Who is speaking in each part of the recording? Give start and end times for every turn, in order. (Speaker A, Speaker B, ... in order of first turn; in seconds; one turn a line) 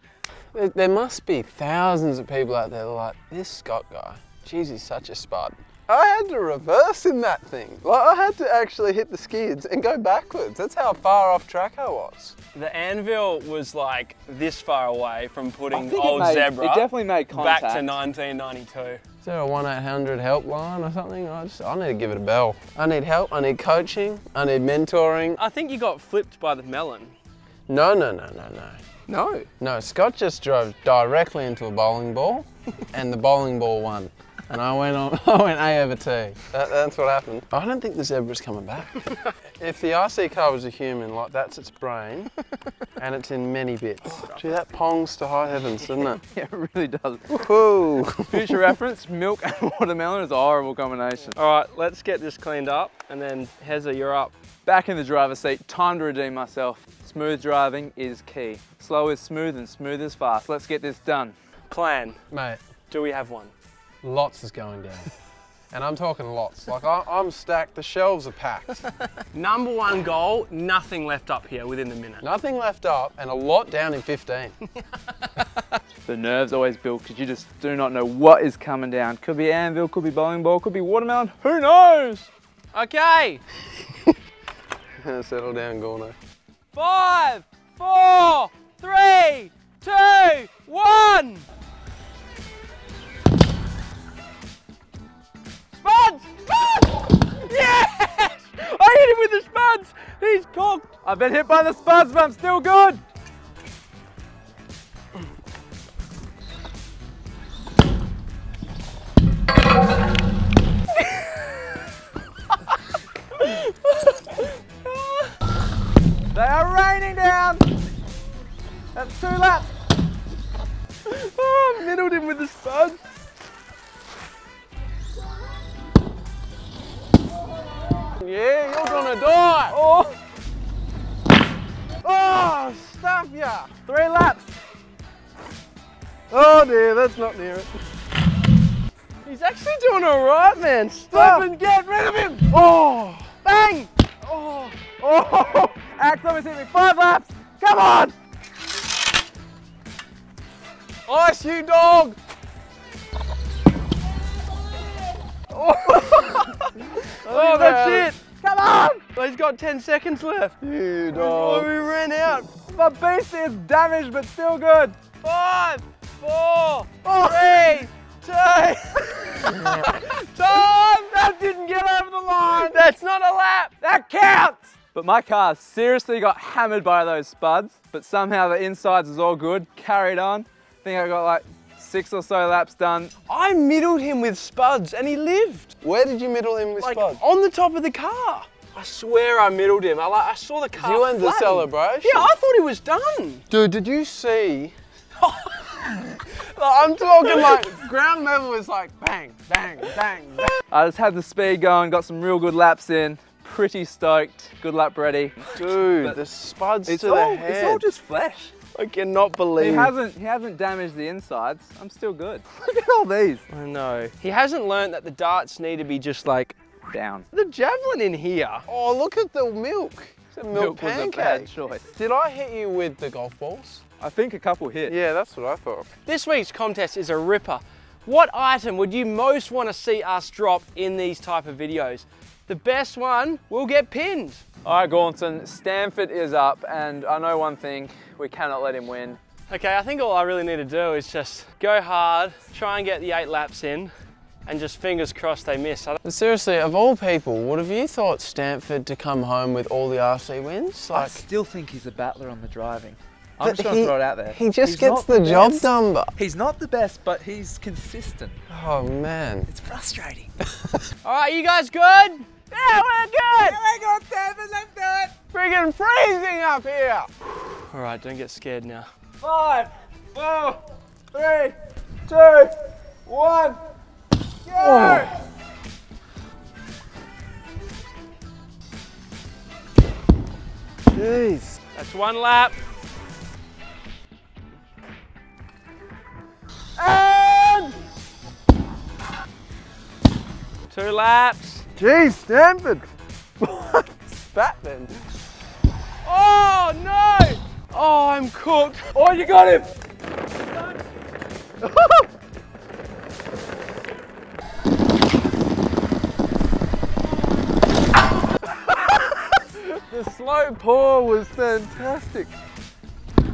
Speaker A: 0.5-12.3
Speaker B: 12.5-19.0
Speaker C: 15.7-18.0
Speaker A: 19.2-25.4
Speaker B: 25.4-27.1
Speaker A: 27.7-28.8
Speaker B: 29.1-29.5
Speaker A: 29.6-39.0
Speaker A: 39.6-42.3
Speaker A: 43.0-46.2
Speaker B: 44.0-44.4
Speaker C: 46.3-47.4
Speaker A: 47.3-48.7
Speaker C: 48.3-51.3
Speaker B: 51.3-54.3
Speaker C: 54.6-61.3
Speaker B: 61.7-62.2
Speaker A: 62.3-62.6
Speaker B: 62.9-63.5
Speaker A: 64.0-65.1
Speaker A: 65.7-68.8
Speaker B: 69.3-72.2
Speaker A: 72.2-74.6
Speaker C: 76.1-82.3
Speaker B: 82.7-83.4
Speaker A: 85.0-86.2
Speaker B: 86.7-91.5
Speaker B: 95.7-100.9
Speaker C: 101.0-103.0
Speaker B: 111.1-111.4
Speaker B: 113.4-115.3
Speaker C: 116.3-117.6
Speaker C: 118.9-119.7
Speaker B: 121.0-123.0
Speaker A: 128.1-129.8
Speaker B: 129.7-130.2
Speaker A: 132.0-133.7
Speaker B: 133.9-134.5
Speaker A: 136.3-137.8
Speaker B: 139.2-141.4
Speaker A: 141.1-143.3
Speaker B: 143.3-143.9
Speaker A: 144.2-144.7
Speaker C: 144.8-148.1
Speaker A: 151.1-152.2
Speaker B: 155.7-156.5
Speaker C: 157.0-159.0
Speaker B: 157.2-158.2
Speaker A: 157.6-158.0
Speaker B: 159.1-160.6
Speaker A: 160.6-161.7
Speaker B: 161.1-162.5
Speaker C: 162.7-165.0
Speaker B: 165.2-170.8
Speaker C: 167.1-167.6
Speaker C: 170.4-172.8
Speaker B: 172.5-173.7
Speaker C: 173.8-183.1
Speaker B: 183.3-185.7
Speaker A: 185.8-187.2
Speaker B: 186.8-193.4
Speaker A: 190.8-192.3
Speaker A: 193.5-194.7
Speaker B: 195.3-195.7
Speaker A: 196.3-200.5
Speaker C: 200.7-205.4
Speaker A: 205.5-207.9
Speaker C: 206.8-208.5
Speaker B: 208.7-209.9
Speaker C: 209.6-213.4
Speaker B: 213.5-216.6
Speaker C: 216.9-217.2
Speaker B: 217.3-218.6
Speaker A: 218.7-223.8
Speaker C: 220.5-221.9
Speaker C: 224.0-224.9
Speaker A: 224.8-225.9
Speaker B: 226.1-234.4
Speaker C: 234.6-239.2
Speaker B: 239.5-243.9
Speaker B: 244.4-246.0
Speaker A: 246.0-251.2
Speaker C: 250.9-258.4
Speaker A: 253.4-256.1
Speaker A: 258.5-259.5
Speaker C: 259.5-260.3
Speaker B: 261.0-262.5
Speaker C: 262.5-265.1
Speaker A: 265.3-267.1
Speaker B: 267.7-268.9
Speaker C: 269.2-270.6
Speaker C: 271.1-271.5
Speaker C: 272.1-272.5
Speaker C: 273.1-273.6
Speaker C: 274.4-275.1
Speaker A: 274.6-275.1
Speaker A: 280.9-281.6
Speaker B: 281.7-282.6
Speaker A: 286.8-287.8
Speaker B: 290.7-291.6
Speaker A: 291.8-292.9
Speaker A: 293.4-295.0
Speaker B: 296.0-299.0
Speaker C: 298.9-299.7
Speaker A: 301.6-302.1
Speaker A: 308.6-312.3